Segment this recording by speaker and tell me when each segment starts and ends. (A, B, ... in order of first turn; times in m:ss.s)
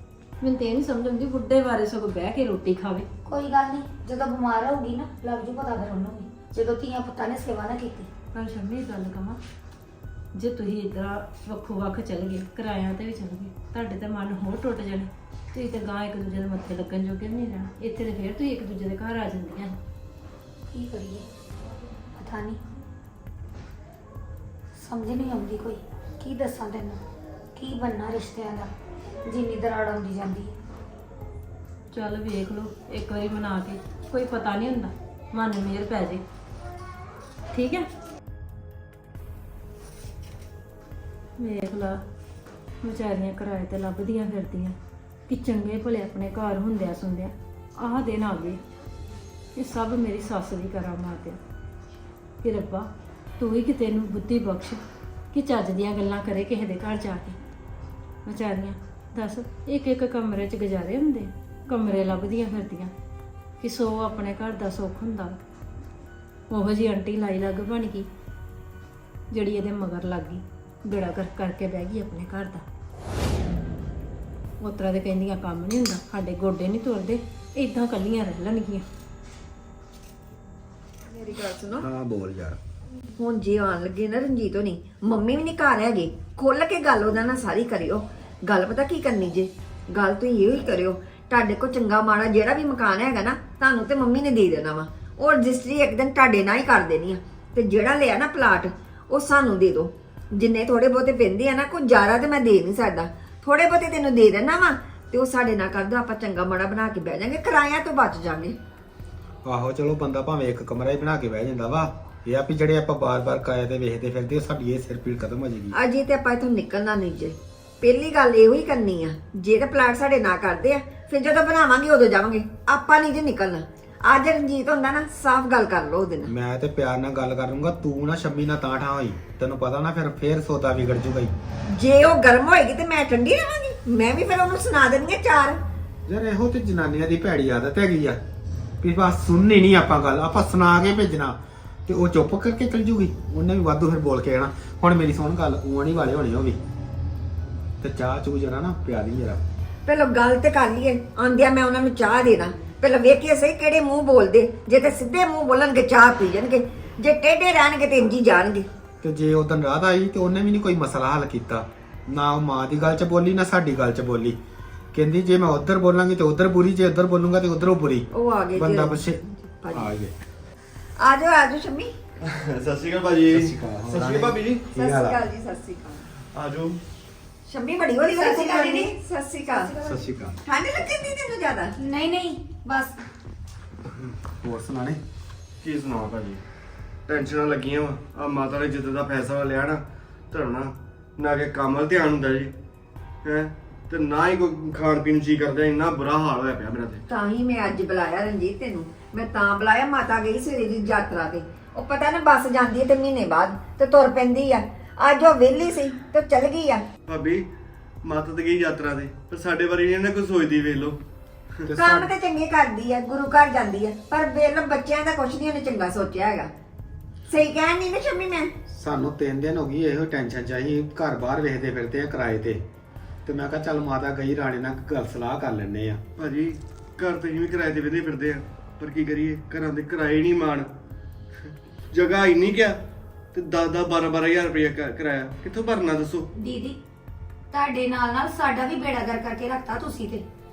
0:00.4-0:03.1 A
0:03.2-0:08.1 B
0:08.3-0:09.4 A
0:10.3-0:19.8 A
0:20.7-0:21.3 B
0:22.2-0:22.6 B
0:24.8-0:27.0 B
0:27.6-0:28.7 B
0:29.2-0:30.5 B
0:31.9-0:36.2 A
0:37.5-0:37.9 A
0:41.4-0:42.0 A
0:42.8-0:44.7 A
0:45.3-0:48.6 A
0:49.6-0:51.4 A
0:52.4-0:54.8 A
0:55.3-0:57.4 A
0:58.2-1:02.9 A
1:03.6-1:05.4 A
1:06.5-1:08.1 A
1:09.3-1:12.6 A
1:14.6-1:18.8 A
1:21.1-1:21.9 C
1:21.8-1:22.6 D
1:23.2-1:48.6 C
1:49.4-1:55.8 D
1:55.7-2:06.3 C
2:06.2-2:11.3 D
2:11.7-2:15.6 C
2:16.1-2:18.2 D
2:18.8-2:26.6 D
2:27.8-2:29.4 D
2:29.9-2:38.7 C
2:39.0-2:44.4 D
2:44.9-2:49.2 D
2:48.1-2:49.9 C
2:49.7-2:50.1 D
2:51.0-2:51.9 C
2:52.2-2:54.6 E
2:53.3-2:55.2 D
2:54.7-2:56.0 C
2:56.3-2:56.8 E
2:57.5-2:59.7 C
2:58.2-2:58.9 B
2:59.5-3:00.0 B
2:59.8-3:00.4 D
3:00.4-3:01.7 C
3:01.8-3:02.9 B
3:04.4-3:05.0 D
3:05.6-3:06.4 E
3:07.1-3:12.5 E
3:13.2-3:17.0 E
3:17.1-3:26.8 C
3:27.1-3:27.4 E
3:28.0-3:31.0 E
3:31.7-3:32.1 D
3:31.7-3:36.5 C
3:37.3-3:38.5 C
3:38.7-3:42.6 D
3:43.2-3:46.0 D
3:46.2-3:50.7 E
3:51.9-3:52.8 E
3:53.3-3:56.3 E
3:56.3-3:56.8 B
3:57.5-4:00.2 B